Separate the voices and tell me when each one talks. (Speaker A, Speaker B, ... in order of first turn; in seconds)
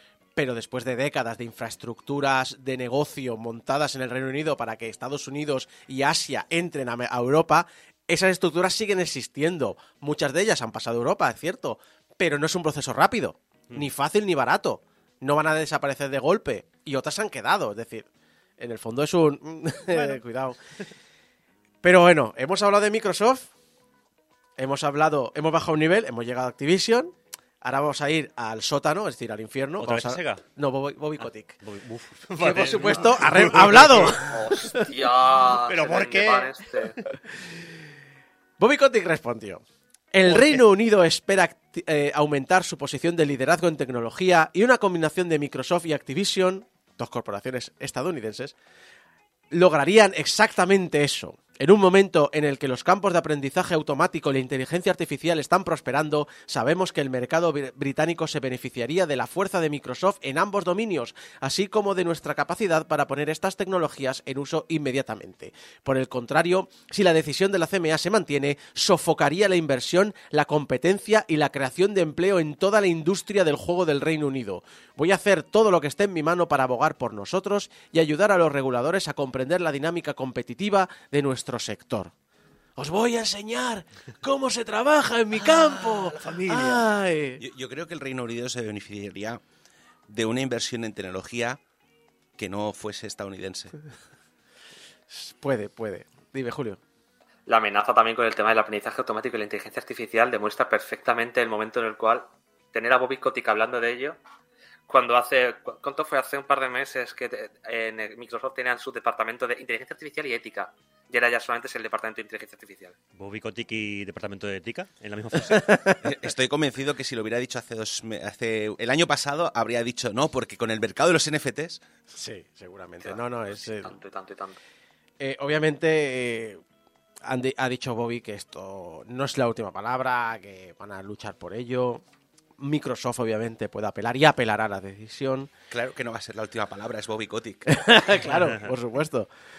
Speaker A: 0.4-18.1, 18.6-20.6, 21.8-23.5, 24.6-31.6, 32.4-34.5, 38.6-48.5, 49.5-82.1, 82.8-87.4, 95.1-96.8, 115.5-116.0, 122.1-124.0, 125.2-126.6, 127.2-132.0, 132.6-135.5, 137.7-139.3
Speaker B: 19.9-20.2, 29.8-30.4, 31.2-34.2, 35.6-37.1, 40.3-40.6, 113.2-115.9, 138.3-138.7
Speaker C: 34.2-36.9, 97.5-104.2, 104.9-113.0, 123.0-124.6
Speaker D: 86.4-86.8, 87.4-89.4, 90.1-91.6, 92.4-93.8, 116.0-121.8, 135.7-137.7